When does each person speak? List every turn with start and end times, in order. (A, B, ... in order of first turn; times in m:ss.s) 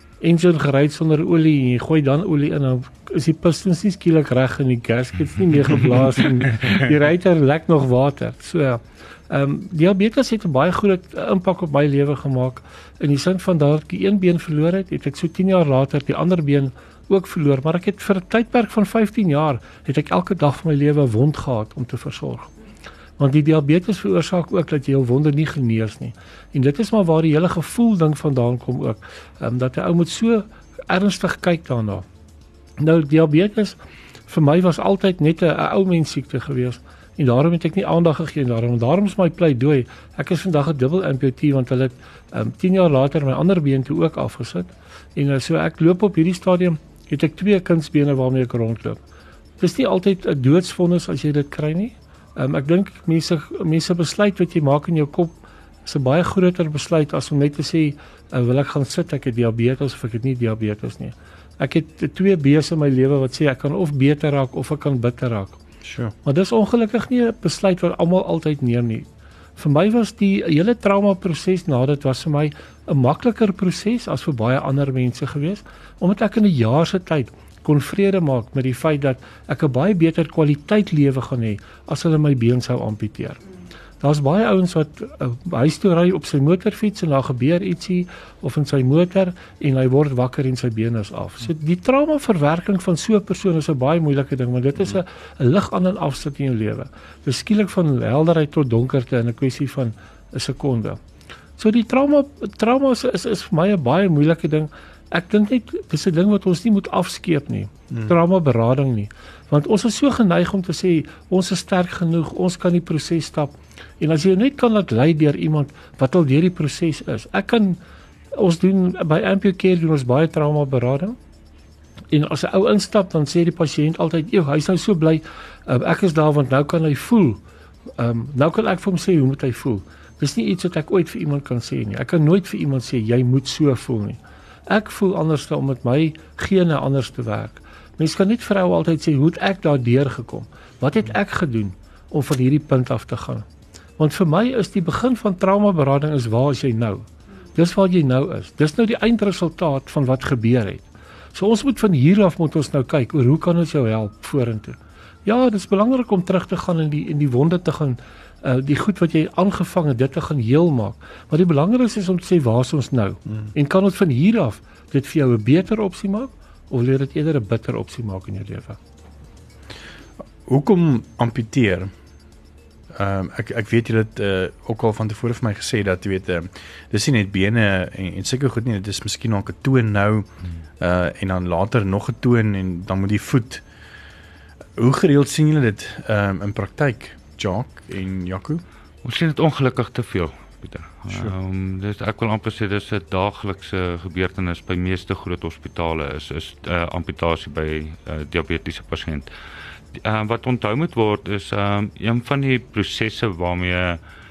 0:00.2-0:22.5 A
0:23.2-0:32.0 A
0:32.8-0:33.8 A
0:34.3-0:49.0 A
0:49.6-1:05.6 A
1:05.8-1:06.1 B
1:06.2-1:09.1 A
1:09.6-1:23.4 A
1:24.0-1:41.0 A
1:41.6-1:57.8 A
1:47.9-1:48.2 B
1:58.4-2:01.2 A
2:02.1-2:07.4 A
2:08.0-2:23.5 A
2:24.0-2:48.8 A
2:50.5-2:51.9 B
2:53.0-3:00.3 B
3:00.8-3:03.6 B
3:04.8-3:08.6 B
3:09.0-3:19.3 C
3:11.1-3:11.4 B
3:20.0-3:24.0 C